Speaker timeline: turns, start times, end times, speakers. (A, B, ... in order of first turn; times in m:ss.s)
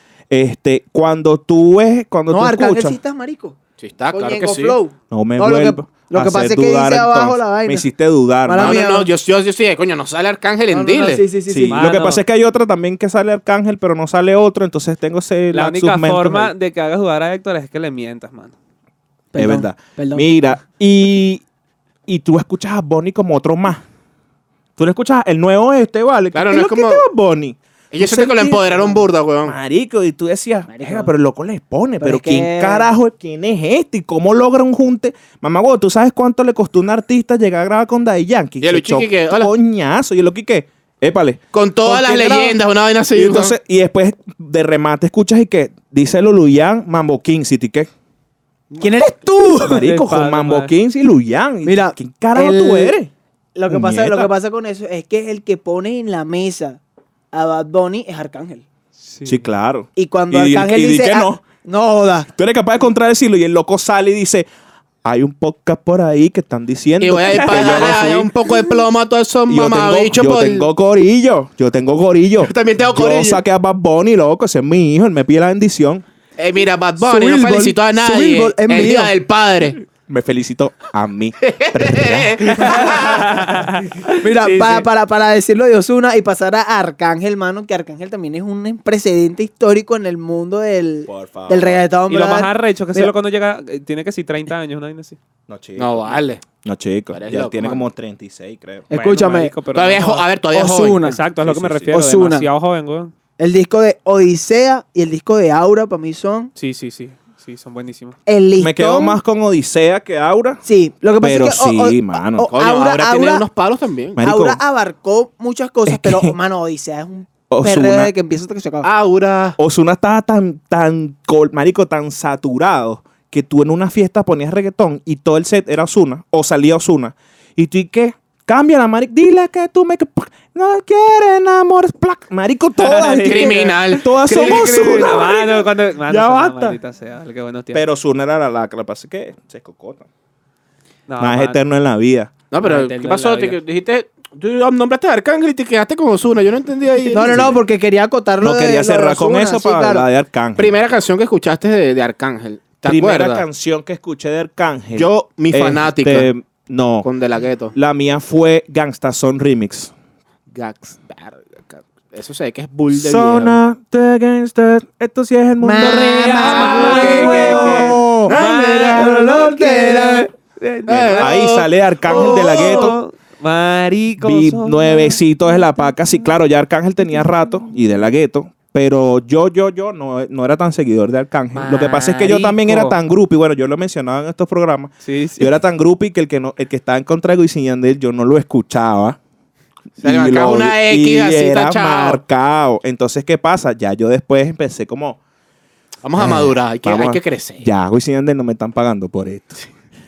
0:00.3-0:03.0 A
0:02.3-0:03.6 B
0:03.8-0:04.8 C
0:04.1-0:07.9 B
0:05.1-0:08.8 A
0:08.4-0:09.1 B
0:08.6-0:11.2 C
0:10.7-0:11.9 B
0:11.5-0:16.5 A
0:11.7-0:12.2 D
0:15.5-0:18.5 D
0:19.3-0:20.6 B
0:19.4-0:21.4 A
0:22.1-0:23.8 A
0:24.8-0:42.6 A
0:26.3-0:27.0 C
0:27.9-0:29.6 C
0:30.7-0:31.1 B
0:32.0-0:32.9 B
0:38.6-0:39.5 C
0:41.5-0:43.6 C
0:43.1-0:47.9 A
0:48.8-0:49.9 B
0:49.6-0:53.1 A
0:49.6-0:50.7 D
0:51.6-0:53.0 B
0:53.6-0:56.8 B
0:53.7-0:54.3 A
0:57.3-0:58.6 B
0:59.0-0:59.4 D
0:59.3-1:01.4 A
1:00.0-1:02.3 B
1:02.4-1:04.5 A
1:05.0-1:08.3 A
1:07.0-1:10.7 C
1:07.4-1:08.6 B
1:09.5-1:16.0 A
1:12.4-1:13.4 C
1:16.4-1:19.8 C
1:17.0-1:19.1 B
1:20.1-1:22.7 A
1:21.5-1:23.2 C
1:22.5-1:24.9 D
1:24.2-1:33.1 B
1:31.1-1:31.8 A
1:32.1-1:35.2 D
1:35.5-1:38.9 A
1:35.8-1:36.4 C
1:37.1-1:37.8 C
1:38.9-1:39.5 B
1:38.9-1:40.3 D
1:39.7-1:41.0 C
1:40.5-1:41.2 B
1:41.0-1:43.1 D
1:41.4-1:41.9 A
1:41.9-1:42.5 B
1:43.4-1:46.5 B
1:46.6-1:48.2 D
1:48.3-1:49.2 B
1:48.6-1:50.6 A
1:50.6-1:53.4 B
1:51.2-1:52.5 A
1:52.5-1:54.2 C
1:54.2-1:54.6 A
1:54.2-1:58.9 B
1:55.9-1:56.4 A
1:57.5-1:58.1 A
1:58.8-1:59.6 C
1:59.6-2:16.8 A
2:12.8-2:17.8 D
2:13.3-2:15.2 C
2:17.7-2:20.1 A
2:21.1-2:21.6 D
2:21.2-2:22.3 A
2:22.5-2:27.5 C
2:22.6-2:23.6 D
2:27.1-2:30.1 B
2:27.3-2:27.5 A
2:28.4-2:30.8 A
2:30.6-2:33.4 C
2:32.8-2:37.1 A
2:35.0-2:36.3 C
2:37.0-2:37.8 C
2:37.8-2:39.9 A
2:40.5-2:43.6 C
2:42.9-2:49.6 A
2:45.6-2:50.3 B
2:45.8-2:51.5 D
2:46.3-2:48.9 C
2:50.9-2:52.5 C
2:50.9-2:53.0 A
2:52.0-2:55.2 D
2:52.3-2:52.9 B
2:54.2-3:09.2 A
3:01.6-3:03.0 D
3:05.0-3:05.5 D
3:10.0-3:12.2 C
3:10.0-3:15.2 A
3:16.0-3:17.7 C
3:16.2-3:19.6 A